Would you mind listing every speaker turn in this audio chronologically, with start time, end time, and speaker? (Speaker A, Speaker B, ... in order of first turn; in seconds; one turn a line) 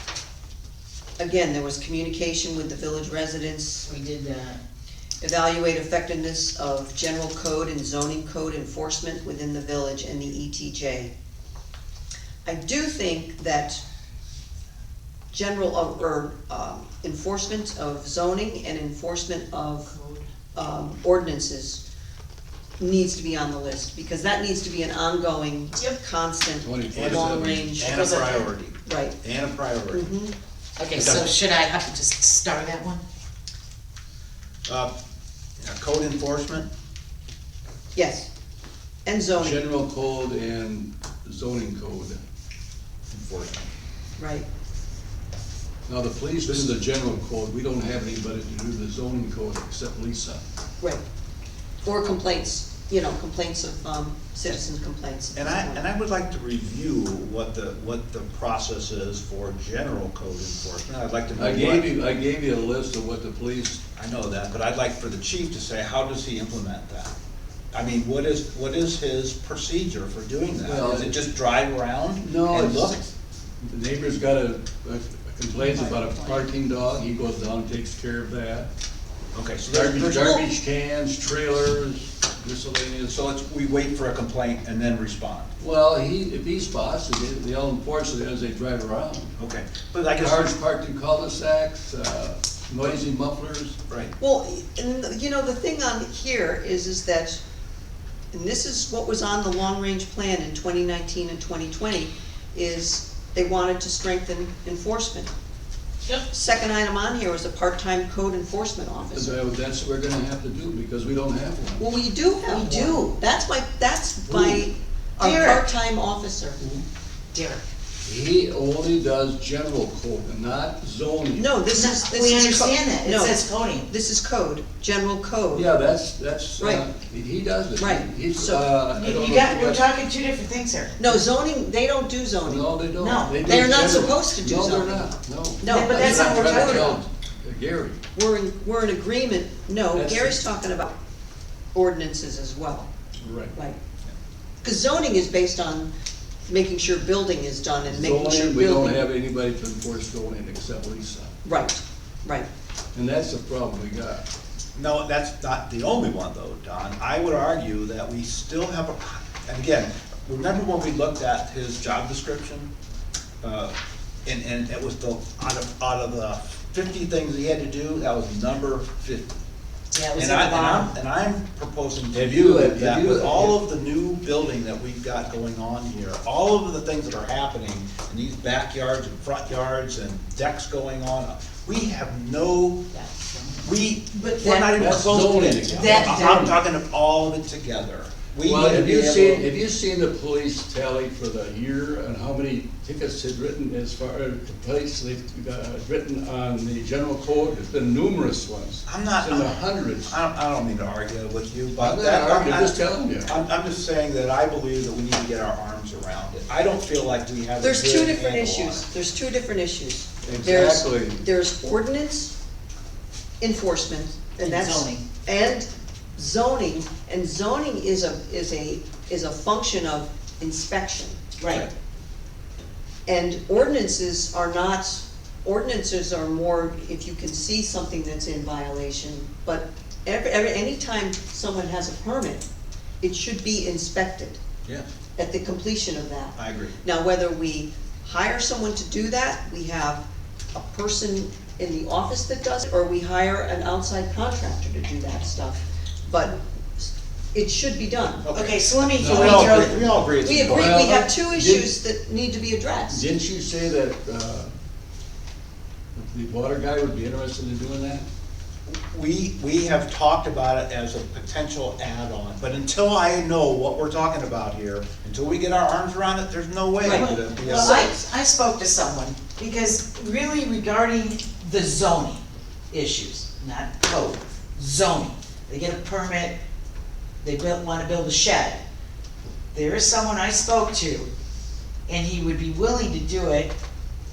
Speaker A: 1.2-3.9
Speaker B: 3.9-4.6
Speaker A: 5.2-11.1
Speaker A: 12.4-13.8
Speaker A: 15.3-19.9
Speaker A: 20.5-21.8
Speaker A: 22.8-28.0
Speaker C: 26.6-27.8
Speaker D: 26.9-30.1
Speaker B: 27.8-28.5
Speaker A: 28.8-29.2
Speaker A: 29.9-30.3
Speaker B: 30.8-33.0
Speaker D: 30.9-31.3
Speaker D: 34.7-34.9
Speaker D: 35.6-36.7
Speaker A: 38.0-38.3
Speaker A: 39.0-39.6
Speaker C: 39.4-42.2
Speaker D: 43.1-43.7
Speaker A: 44.2-44.5
Speaker C: 45.9-50.4
Speaker A: 51.8-55.8
Speaker D: 55.4-61.9
Speaker C: 61.4-63.8
Speaker D: 64.0-67.1
Speaker D: 67.7-73.1
Speaker C: 70.6-71.2
Speaker C: 72.2-73.0
Speaker C: 73.6-78.7
Speaker D: 79.3-80.5
Speaker C: 79.7-83.2
Speaker D: 83.1-85.5
Speaker C: 85.6-89.3
Speaker D: 89.4-90.5
Speaker C: 90.1-93.8
Speaker D: 93.9-94.1
Speaker A: 94.2-97.4
Speaker A: 98.3-105.3
Speaker A: 106.3-109.3
Speaker C: 109.1-111.9
Speaker A: 111.8-116.6
Speaker B: 112.4-113.2
Speaker C: 114.3-114.7
Speaker B: 115.2-115.7
Speaker B: 117.3-117.6
Speaker C: 118.0-121.6
Speaker A: 121.4-125.7
Speaker B: 121.7-123.9
Speaker C: 125.5-129.8
Speaker A: 126.6-126.8
Speaker A: 127.8-128.6
Speaker B: 128.9-131.1
Speaker A: 131.0-132.7
Speaker C: 132.4-138.0
Speaker B: 133.0-133.8
Speaker A: 133.4-137.0
Speaker B: 135.7-137.0
Speaker A: 138.1-140.9
Speaker C: 139.9-140.4
Speaker A: 141.7-142.9
Speaker C: 143.2-143.6
Speaker A: 144.6-145.9
Speaker A: 146.5-149.0
Speaker C: 147.9-151.3
Speaker A: 151.4-152.5
Speaker C: 152.9-154.3
Speaker D: 154.8-162.7
Speaker D: 163.4-169.3
Speaker B: 169.9-170.9
Speaker D: 170.1-182.9
Speaker C: 172.2-173.6
Speaker B: 182.9-184.7
Speaker D: 183.6-189.5
Speaker C: 184.8-186.3
Speaker B: 185.8-186.6
Speaker C: 188.4-200.2
Speaker D: 198.9-208.8
Speaker C: 201.8-203.3
Speaker A: 207.6-212.3
Speaker C: 210.3-211.2
Speaker A: 213.4-221.2
Speaker B: 214.4-215.1
Speaker B: 221.4-221.7
Speaker A: 223.1-232.5
Speaker A: 233.0-234.4
Speaker A: 235.2-248.3
Speaker D: 236.4-236.8
Speaker D: 248.2-250.8
Speaker B: 248.3-249.8
Speaker C: 249.0-249.5
Speaker A: 250.2-253.0
Speaker C: 250.5-251.7
Speaker C: 252.9-254.5
Speaker C: 256.0-258.1
Speaker D: 258.7-267.9
Speaker A: 266.8-267.9
Speaker B: 266.8-276.4
Speaker B: 277.2-278.6
Speaker B: 279.5-281.1
Speaker B: 281.9-283.5